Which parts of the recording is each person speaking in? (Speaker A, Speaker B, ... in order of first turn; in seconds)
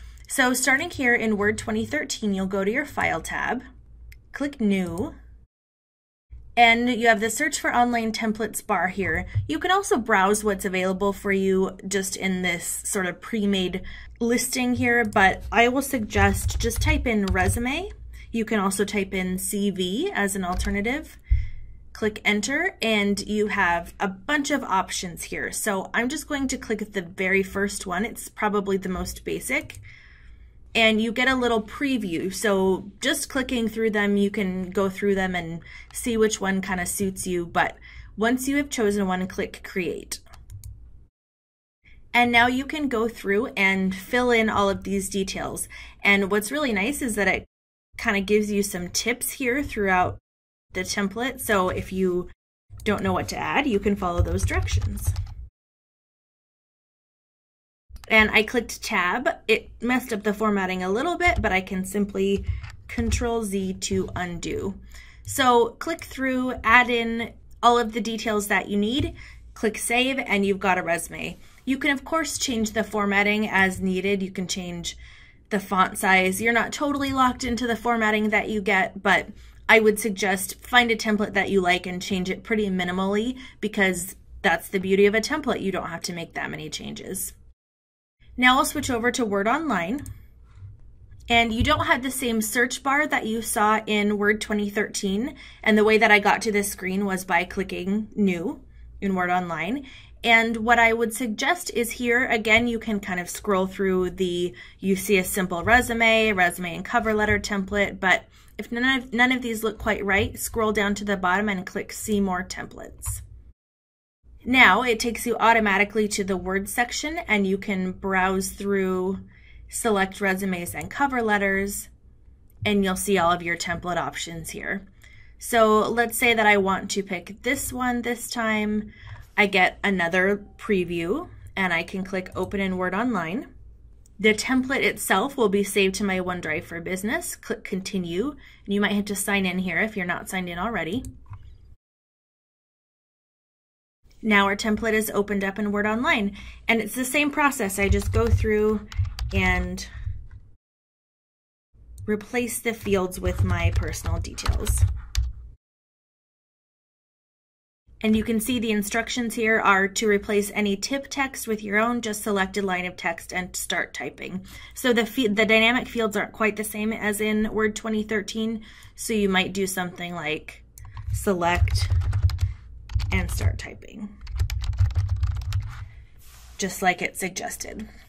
Speaker A: 0.3-3.6, 4.3-5.1, 6.6-21.2, 21.9-29.8, 30.7-40.2, 42.1-47.5, 48.0-50.2, 50.7-52.3, 52.9-55.1, 58.1-75.0, 75.5-87.3, 88.4-90.0, 91.3-113.2, 114.4-121.9, 122.6-124.8, 125.4-133.5, 134.2-141.0, 144.2-149.9, 152.1-154.8, 158.0-171.9, 173.1-174.1, 176.6-177.8